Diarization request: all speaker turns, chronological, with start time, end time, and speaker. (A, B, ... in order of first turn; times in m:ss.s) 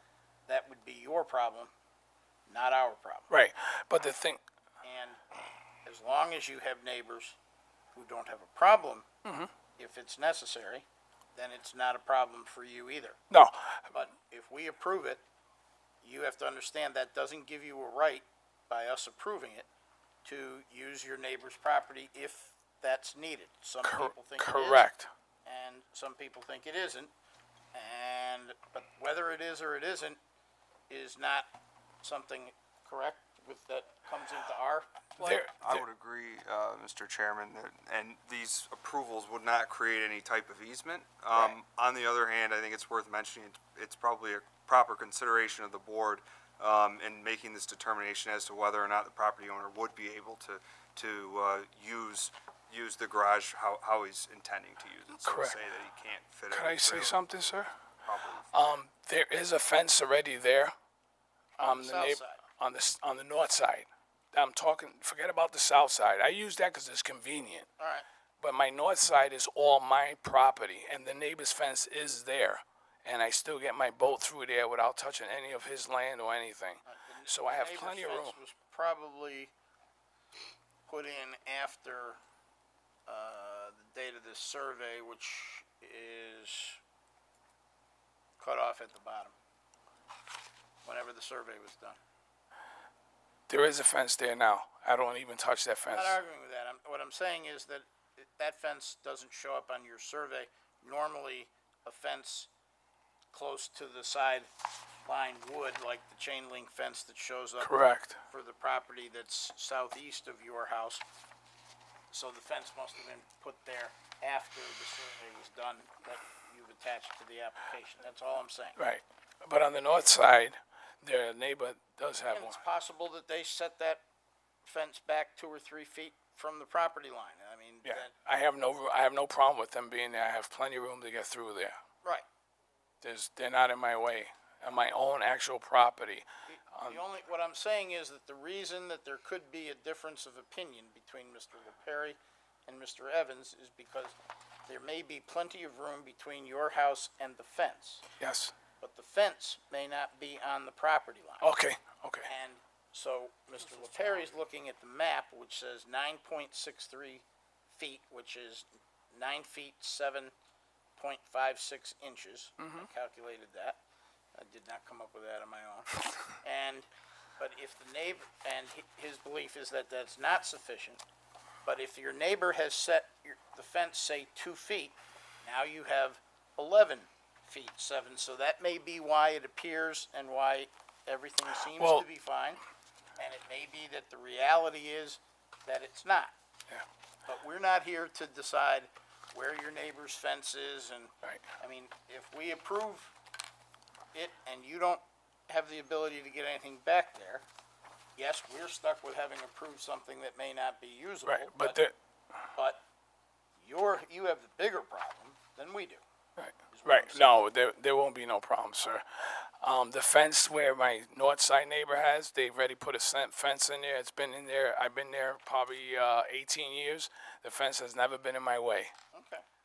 0:00.5-0:01.7 A
0:02.5-0:03.3 A
0:03.3-0:04.4 B
0:04.8-0:05.2 A
0:05.8-0:07.4 A
0:07.9-0:09.1 A
0:09.2-0:09.5 B
0:09.8-0:13.2 A
0:13.3-0:13.9 B
0:13.9-0:15.2 A
0:16.0-0:19.7 A
0:20.2-0:24.9 A
0:23.8-0:25.1 B
0:25.4-0:27.1 A
0:27.7-0:30.2 A
0:30.9-0:31.5 A
0:32.0-0:35.4 A
0:35.2-0:57.3 C
0:35.2-0:35.8 B
0:55.2-0:55.6 B
0:56.5-0:57.7 B
0:58.0-0:58.5 C
0:58.5-1:00.7 B
1:01.6-1:02.4 A
1:01.6-1:07.7 B
1:07.8-1:08.0 A
1:08.4-1:18.4 B
1:16.8-1:19.5 A
1:20.9-1:22.2 A
1:23.1-1:26.8 A
1:28.4-1:29.3 A
1:30.8-1:32.0 A
1:33.5-1:36.2 B
1:35.9-1:42.5 A
1:43.3-1:44.5 A
1:45.0-1:51.0 A
1:47.6-1:48.2 B
1:52.1-1:58.8 A
1:58.8-2:02.6 B
2:02.3-2:04.0 A
2:04.6-2:08.1 A
2:07.8-2:11.8 B
2:13.0-2:17.0 B
2:16.5-2:24.1 A
2:24.7-2:28.0 A
2:28.2-2:28.5 B
2:28.8-2:31.5 A
2:31.4-2:32.3 B
2:32.2-2:40.3 A
2:41.0-2:43.8 A
2:42.6-2:42.9 B
2:44.3-2:46.9 A
2:47.4-2:51.0 A
2:51.6-3:02.6 A
3:01.7-3:02.0 B
3:03.2-3:06.3 A
3:07.2-3:13.1 A
3:14.1-3:17.4 A
3:18.2-3:21.8 A
3:21.3-3:21.9 B
3:22.5-3:22.8 A
3:23.6-3:26.0 A
3:26.4-3:38.9 B
3:26.7-3:27.4 A
3:39.1-3:39.4 A